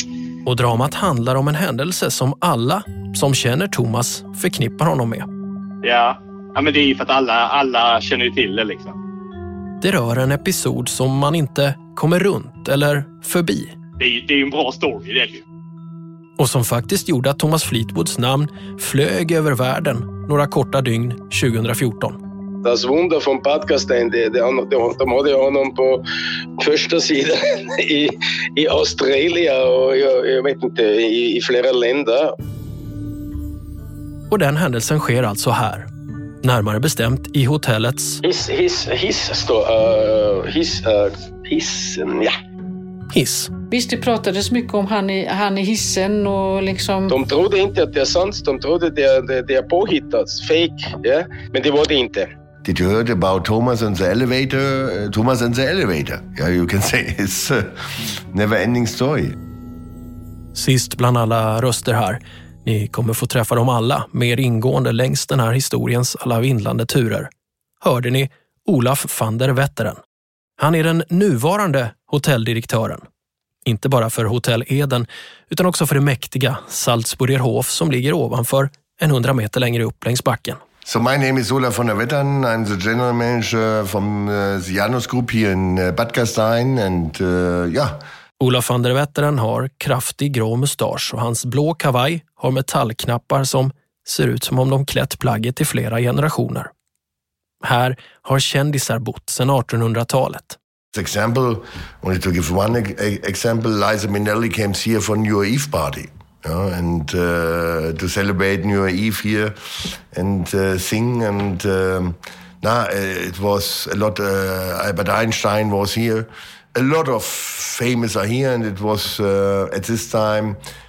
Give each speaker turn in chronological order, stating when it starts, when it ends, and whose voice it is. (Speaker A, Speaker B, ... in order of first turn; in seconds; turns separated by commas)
Speaker A: 0.4-5.2, Speaker B: 5.8-9.0, Speaker A: 9.8-13.7, Speaker B: 14.0-15.4, Speaker A: 16.4-22.2, Speaker C: 22.6-26.0, Speaker C: 26.6-32.3, Speaker A: 34.3-35.9, Speaker A: 36.4-38.2, Speaker C: 38.2-42.3, Speaker A: 43.1-43.5, Speaker D: 43.7-47.1, Speaker C: 47.1-52.3, Speaker E: 52.6-57.7, Speaker E: 58.3-59.4, Speaker A: 60.5-67.3, Speaker A: 67.8-70.0, Speaker A: 70.6-73.0, Speaker A: 73.7-80.6, Speaker E: 80.8-88.0, Speaker A: 88.4-96.7, Speaker A: 97.6-100.6, Speaker E: 100.9-109.5, Speaker E: 110.1-120.6